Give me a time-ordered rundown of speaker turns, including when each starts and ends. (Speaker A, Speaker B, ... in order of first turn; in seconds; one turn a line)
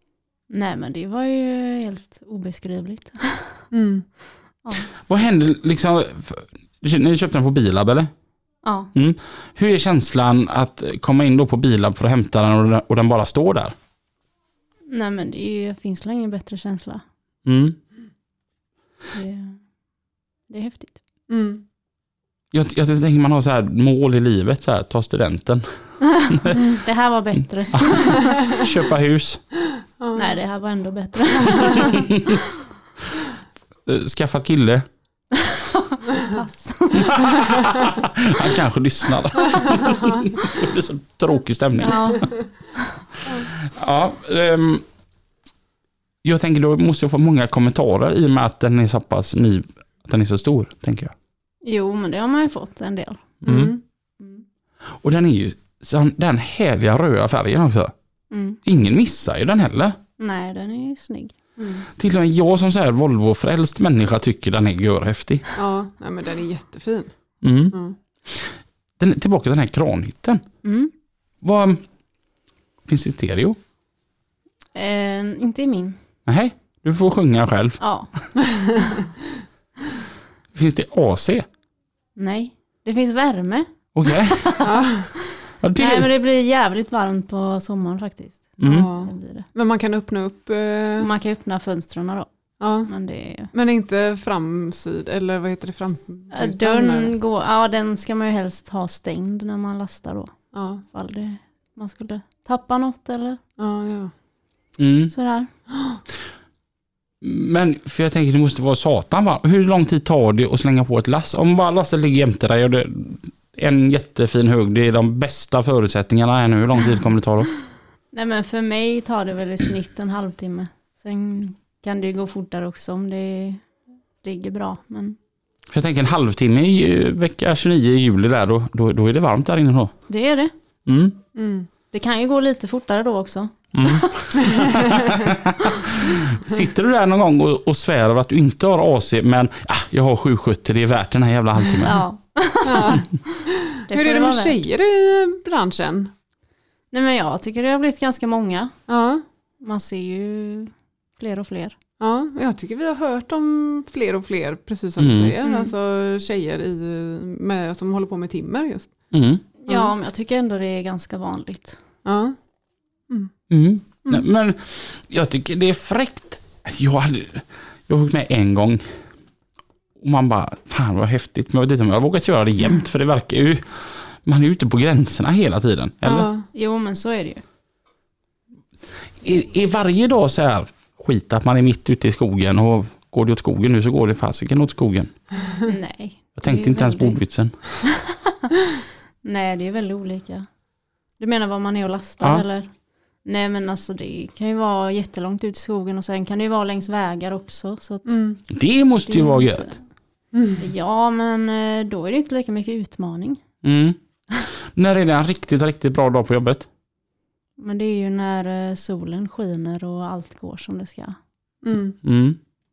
Speaker A: 0.5-3.6
Speaker B: 3.7-4.0
Speaker C: 5.1-8.1
Speaker A: 8.6-8.9
Speaker C: 8.9-13.7
Speaker A: 14.9-17.0
Speaker C: 17.4-17.8
Speaker A: 19.1-19.6
Speaker A: 20.5-21.0
Speaker B: 21.3-21.6
Speaker C: 22.5-25.6
Speaker A: 26.1-28.4
Speaker C: 26.3-26.5
Speaker B: 26.5-26.8
Speaker C: 28.5-29.4
Speaker B: 30.0-30.3
Speaker A: 30.1-32.1
Speaker C: 33.9-34.9
Speaker A: 35.4-37.5
Speaker C: 37.1-42.1
Speaker B: 39.6-39.9
Speaker A: 41.8-42.8
Speaker C: 43.5-44.8
Speaker C: 46.2-51.1
Speaker A: 51.6-53.4
Speaker B: 53.4-53.8
Speaker C: 53.4-53.7
Speaker C: 55.0-57.9
Speaker A: 58.3-58.6
Speaker C: 58.6-60.0
Speaker A: 60.2-61.3
Speaker B: 61.6-61.9
Speaker C: 62.0-65.5
Speaker B: 65.5-67.1
Speaker C: 67.4-70.4
Speaker A: 70.6-70.9
Speaker C: 71.4-71.8
Speaker C: 72.9-73.6
Speaker A: 74.7-76.0
Speaker C: 76.2-77.8
Speaker A: 77.8-78.1
Speaker B: 78.4-79.0
Speaker C: 80.5-81.5
Speaker A: 82.2-84.8
Speaker C: 83.9-84.5
Speaker B: 84.6-85.1
Speaker C: 85.6-86.1
Speaker A: 85.8-89.5
Speaker C: 88.6-88.9
Speaker B: 88.6-91.1
Speaker A: 91.0-92.3
Speaker B: 92.6-92.9
Speaker A: 92.9-93.5
Speaker B: 93.5-97.1
Speaker A: 96.3-100.3
Speaker B: 100.5-100.8
Speaker A: 100.9-103.4
Speaker B: 103.6-104.1
Speaker C: 104.8-105.1
Speaker A: 105.1-105.5
Speaker B: 105.7-106.0
Speaker C: 107.2-117.5
Speaker A: 118.1-123.6
Speaker A: 124.2-125.2
Speaker C: 125.7-129.9
Speaker A: 130.1-130.5
Speaker C: 130.9-131.2
Speaker B: 131.3-131.7
Speaker A: 131.9-134.8
Speaker C: 133.7-142.0
Speaker B: 134.4-135.1
Speaker A: 141.8-144.6
Speaker B: 142.6-146.1
Speaker A: 146.9-148.7
Speaker B: 148.9-149.2
Speaker A: 149.6-151.8
Speaker B: 152.0-158.9
Speaker C: 155.0-155.4
Speaker A: 155.4-155.7
Speaker C: 159.1-159.4
Speaker A: 159.6-161.8
Speaker B: 162.0-162.4
Speaker C: 163.5-168.8
Speaker C: 170.0-176.3
Speaker B: 176.0-176.4
Speaker A: 176.5-177.4
Speaker C: 179.2-185.1
Speaker A: 185.6-187.2
Speaker C: 186.4-187.5
Speaker A: 189.2-190.4
Speaker A: 191.2-192.7
Speaker A: 193.2-198.2
Speaker B: 198.1-198.4
Speaker C: 198.5-199.7
Speaker A: 199.1-199.8
Speaker B: 200.3-200.6
Speaker A: 200.6-203.4
Speaker C: 203.6-204.0
Speaker C: 204.7-206.7
Speaker A: 207.6-211.2
Speaker B: 211.6-212.0
Speaker C: 212.0-212.4